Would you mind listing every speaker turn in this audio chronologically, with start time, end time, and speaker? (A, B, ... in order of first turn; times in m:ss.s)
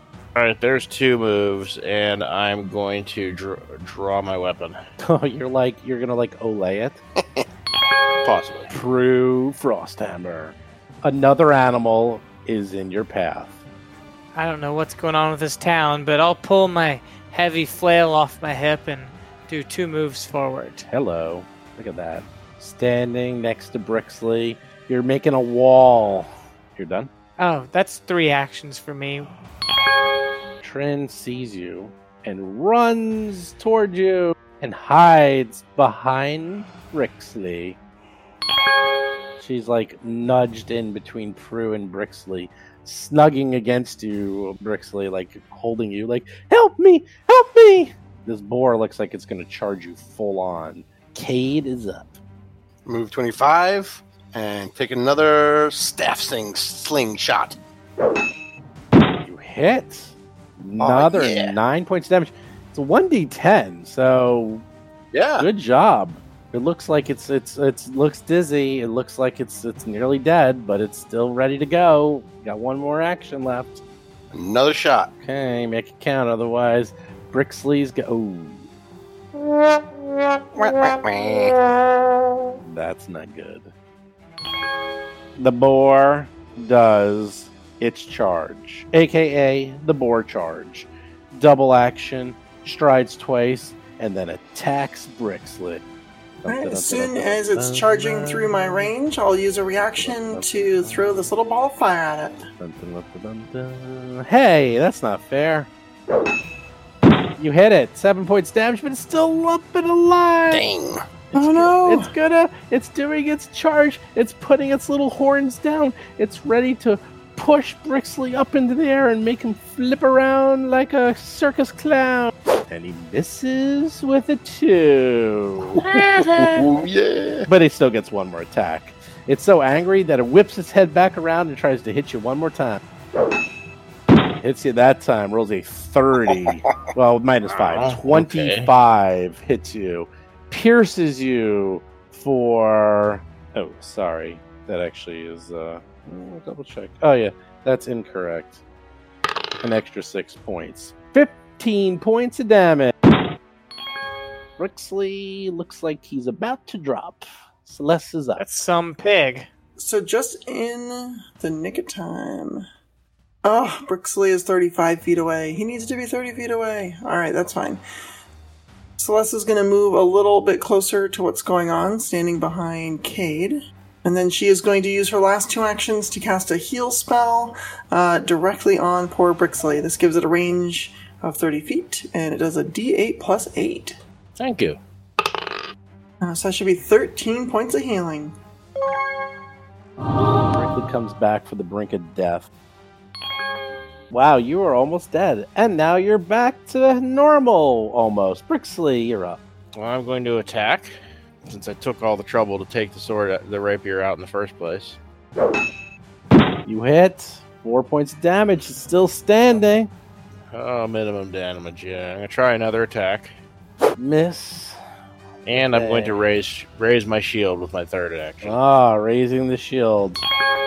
0:00.4-0:04.8 A
0:05.0-0:07.0 B
0:08.2-0:08.7 A
0:08.7-0:13.6 B
0:14.3-0:20.9 C
0:20.9-0:27.1 B
0:27.4-0:29.3 C
0:30.6-0:37.8 B
0:39.4-0:52.2 B
0:52.9-0:57.6 D
0:59.2-1:04.6 B
1:00.8-1:01.6 D
1:05.1-1:05.5 D
1:05.4-1:13.8 B
1:14.3-1:15.1 D
1:15.2-1:18.7 B
1:20.6-1:21.6 D
1:22.6-1:23.7 B
1:25.4-1:35.8 B
1:36.4-1:38.9 B
1:36.5-1:42.4 E
1:39.7-1:41.3 B
1:42.6-1:45.7 B
1:47.4-1:50.6 B
1:50.5-1:51.0 D
1:51.3-2:06.7 B
1:51.4-1:52.1 E
2:05.8-2:07.5 D
2:07.5-2:12.8 B
2:14.4-2:28.6 B
2:17.5-2:18.7 A
2:29.6-2:32.9 B
2:34.6-2:38.5 B
2:38.4-2:39.5 C
2:39.8-2:42.6 E
2:43.4-2:47.8 E
2:49.0-3:04.0 E
3:04.4-3:04.8 A
3:06.2-3:08.4 E
3:10.5-3:12.5 B
3:14.1-3:19.4 B
3:19.8-3:20.9 A
3:21.5-3:25.0 A
3:26.7-3:29.9 B
3:30.5-3:33.3 A
3:34.0-3:34.8 B
3:35.5-3:38.6 A
3:35.5-3:36.2 B
3:38.4-3:40.2 B